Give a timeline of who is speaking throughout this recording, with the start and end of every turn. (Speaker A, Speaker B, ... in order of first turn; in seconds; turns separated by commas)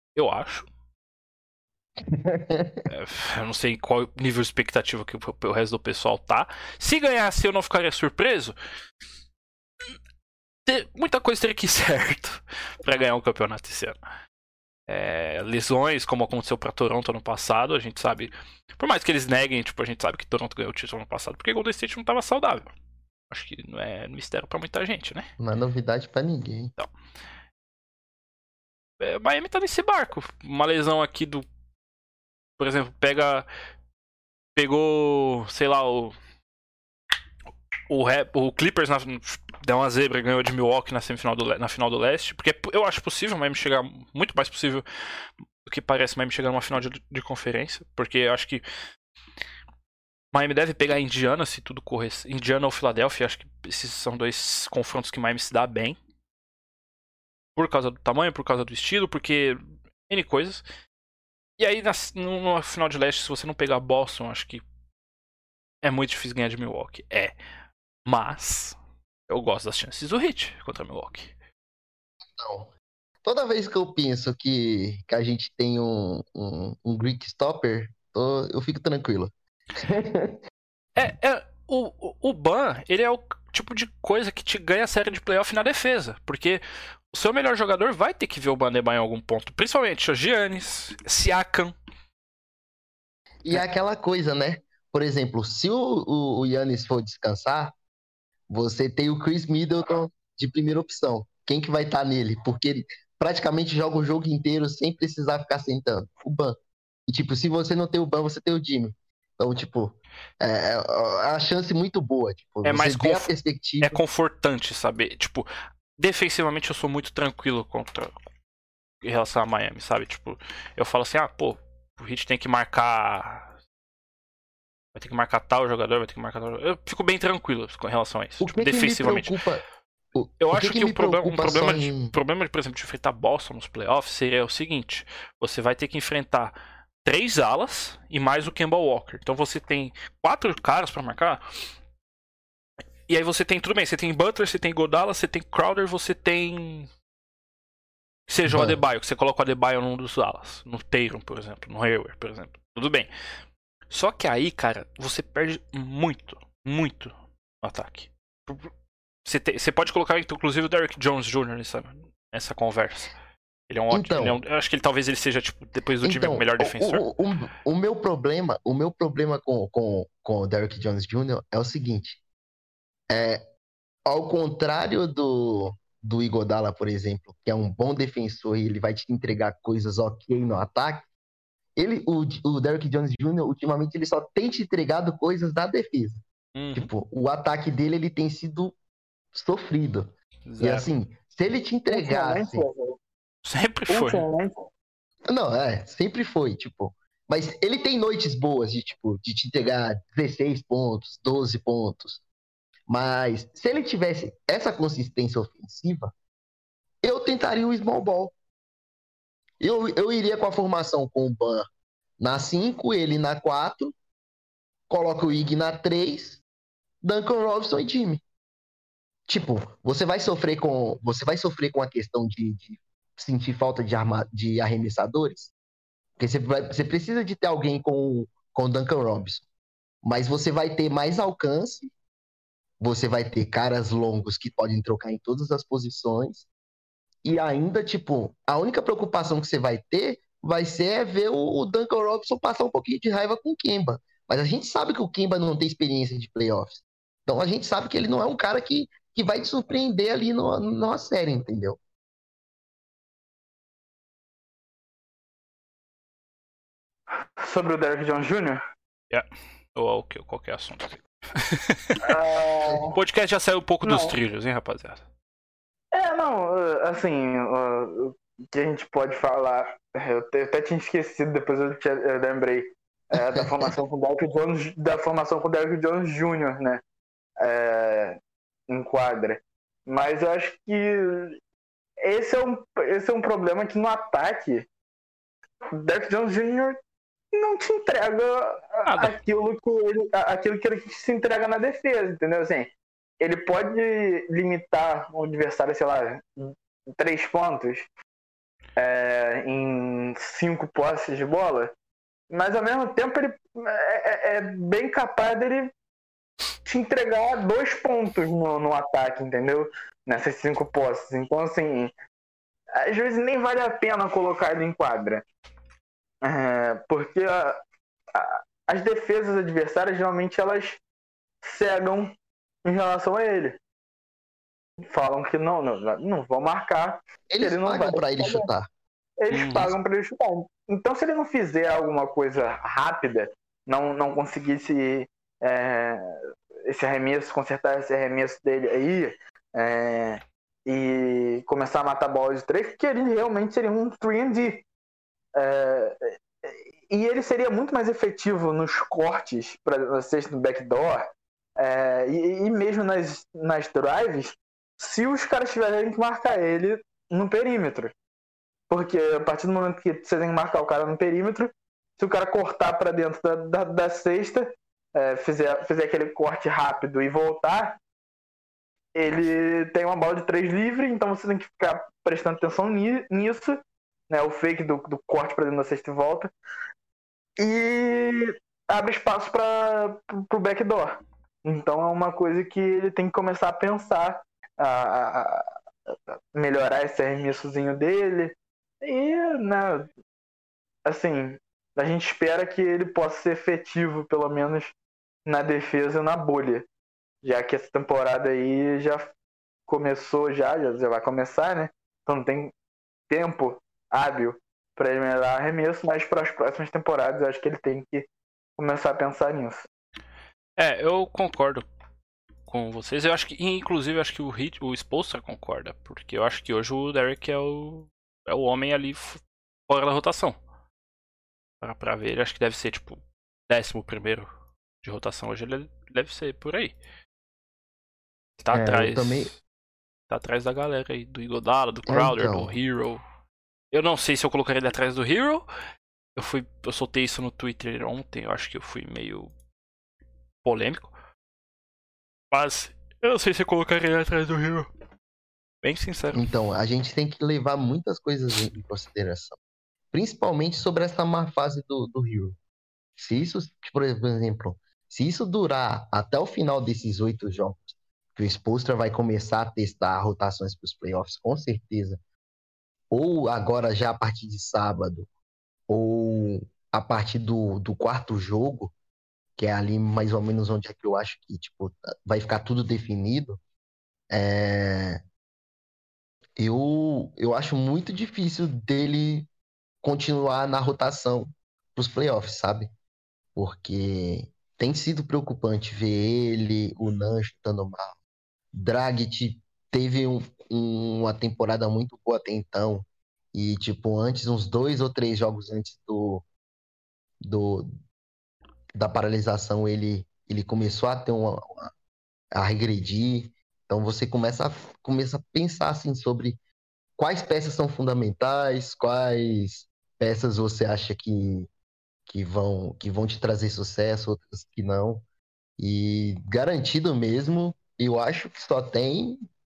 Speaker A: 0.1-0.7, Speaker B: 2.0-2.9, Speaker A: 2.9-8.5, Speaker A: 10.7-14.0, Speaker A: 14.9-22.7, Speaker A: 23.3-25.3, Speaker B: 25.4-26.7, Speaker A: 29.0-31.4, Speaker A: 32.6-33.5, Speaker A: 34.5-36.1, Speaker A: 37.9-44.8, Speaker A: 45.6-48.6, Speaker A: 50.3-56.0, Speaker A: 57.5-60.6, Speaker A: 61.6-64.6, Speaker A: 65.8-67.3, Speaker A: 68.0-68.8, Speaker A: 69.3-71.3, Speaker B: 72.3-72.7, Speaker B: 73.2-80.4, Speaker A: 81.0-91.7, Speaker B: 93.4-97.7, Speaker B: 98.5-114.0, Speaker A: 112.6-118.1, Speaker A: 119.0-123.5, Speaker A: 124.9-129.3, Speaker B: 128.4-129.6, Speaker B: 130.1-132.1, Speaker A: 130.4-141.4, Speaker A: 143.1-146.9, Speaker A: 148.3-153.1, Speaker B: 148.5-148.8, Speaker A: 153.9-158.7, Speaker A: 159.2-163.1, Speaker A: 163.7-167.0, Speaker B: 163.9-164.4, Speaker B: 166.0-172.2, Speaker B: 173.1-173.4, Speaker B: 174.1-181.1, Speaker B: 181.8-186.2, Speaker A: 186.5-186.9, Speaker B: 186.7-188.8, Speaker B: 189.3-192.7, Speaker A: 190.4-190.9, Speaker C: 191.9-193.0, Speaker A: 193.4-194.3, Speaker C: 193.9-194.7, Speaker B: 195.3-202.2, Speaker B: 202.9-206.1, Speaker B: 207.0-208.3, Speaker B: 209.6-211.7, Speaker B: 212.2-213.9, Speaker B: 214.9-216.4, Speaker B: 217.0-218.2, Speaker B: 219.3-225.5, Speaker B: 226.2-229.4, Speaker B: 230.0-231.9, Speaker B: 232.8-236.5, Speaker B: 237.2-251.8, Speaker C: 257.4-258.6, Speaker A: 259.1-262.0, Speaker C: 262.0-262.9, Speaker A: 262.9-265.0, Speaker C: 263.8-264.1, Speaker C: 265.9-276.8, Speaker C: 277.4-278.2, Speaker C: 278.7-281.4, Speaker C: 282.0-284.7, Speaker C: 285.7-286.8, Speaker C: 287.3-297.9, Speaker A: 288.9-289.2, Speaker C: 298.8-301.7, Speaker C: 302.3-305.7, Speaker C: 306.6-311.9, Speaker C: 312.7-315.2, Speaker C: 316.2-317.6, Speaker C: 318.1-320.8, Speaker C: 321.4-322.1, Speaker C: 322.6-323.6, Speaker C: 324.9-328.5, Speaker B: 327.3-328.7, Speaker C: 329.2-344.6, Speaker A: 329.3-329.7, Speaker C: 345.3-357.9, Speaker C: 358.7-367.8, Speaker C: 368.9-373.6, Speaker C: 374.1-376.3, Speaker C: 377.4-385.4, Speaker C: 386.3-389.9, Speaker C: 390.8-394.7, Speaker C: 395.2-396.7, Speaker C: 397.2-399.1, Speaker C: 399.7-402.5, Speaker C: 403.1-408.1, Speaker C: 408.6-409.7, Speaker A: 410.6-411.7, Speaker A: 412.5-420.4, Speaker A: 421.6-424.3, Speaker A: 424.8-426.8, Speaker A: 428.4-429.4, Speaker B: 428.5-429.4, Speaker A: 430.1-433.0, Speaker B: 431.9-432.6, Speaker A: 433.7-435.5, Speaker A: 436.1-439.3, Speaker A: 440.4-440.9, Speaker A: 442.3-444.7, Speaker A: 445.6-446.3, Speaker B: 446.1-449.4, Speaker B: 449.9-452.4, Speaker B: 453.0-462.0, Speaker B: 462.9-465.1, Speaker B: 465.7-468.7, Speaker B: 469.4-473.4, Speaker B: 474.1-475.0, Speaker B: 476.4-479.3, Speaker B: 479.8-482.7, Speaker B: 483.4-487.9, Speaker B: 488.5-496.2, Speaker B: 497.2-497.7, Speaker B: 498.7-501.7, Speaker B: 502.3-506.4, Speaker B: 507.0-511.5, Speaker B: 512.1-515.0, Speaker B: 515.6-519.2